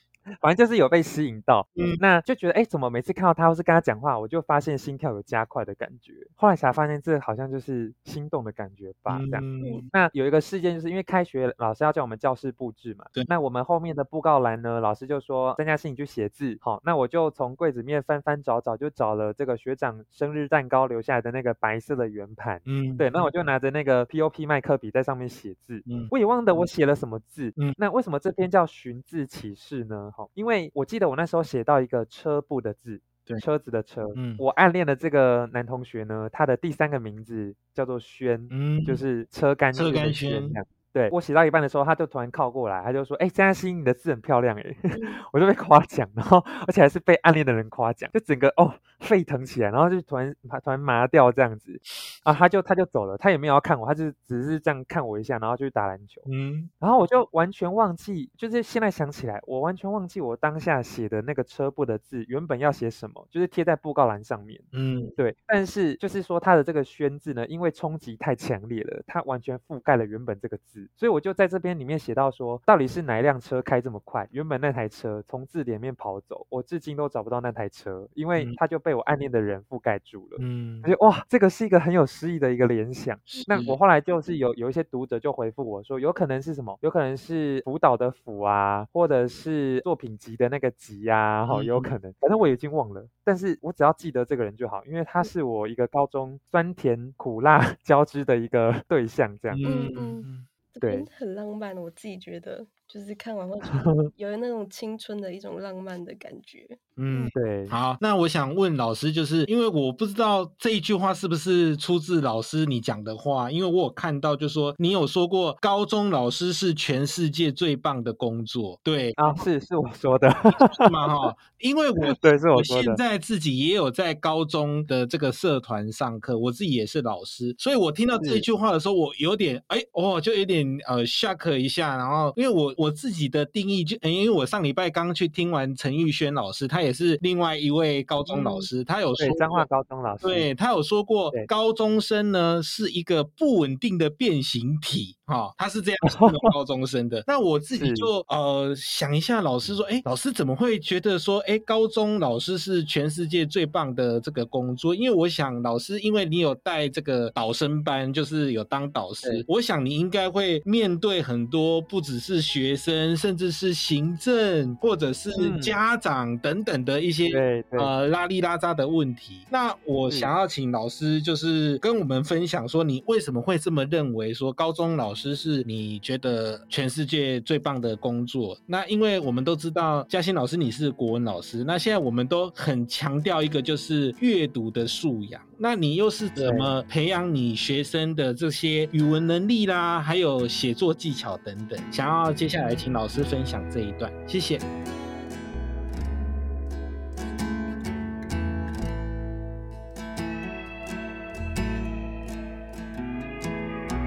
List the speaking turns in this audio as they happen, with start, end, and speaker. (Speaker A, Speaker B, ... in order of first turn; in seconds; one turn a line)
Speaker A: 0.4-56.3
Speaker B: 9.1-9.9
Speaker B: 22.6-23.1
Speaker B: 25.9-26.1
Speaker B: 34.1-34.4
Speaker B: 38.5-39.0
Speaker B: 39.7-40.6
Speaker C: 44.9-45.2
Speaker B: 56.2-56.7
Speaker A: 56.8-99.7
Speaker B: 64.7-65.1
Speaker B: 80.4-80.9
Speaker B: 83.4-83.8
Speaker B: 91.5-91.9
Speaker B: 99.5-100.5
Speaker C: 99.6-107.3
Speaker A: 100.8-101.1
Speaker B: 107.0-119.2
Speaker A: 107.3-107.7
Speaker A: 119.2-120.9
Speaker B: 120.5-139.7
Speaker A: 122.0-123.0
Speaker A: 128.2-128.4
Speaker A: 138.3-140.5
Speaker B: 140.2-194.6
Speaker A: 146.0-146.5
Speaker A: 147.7-148.1
Speaker A: 165.3-165.8
Speaker A: 167.3-167.9
Speaker A: 186.3-186.7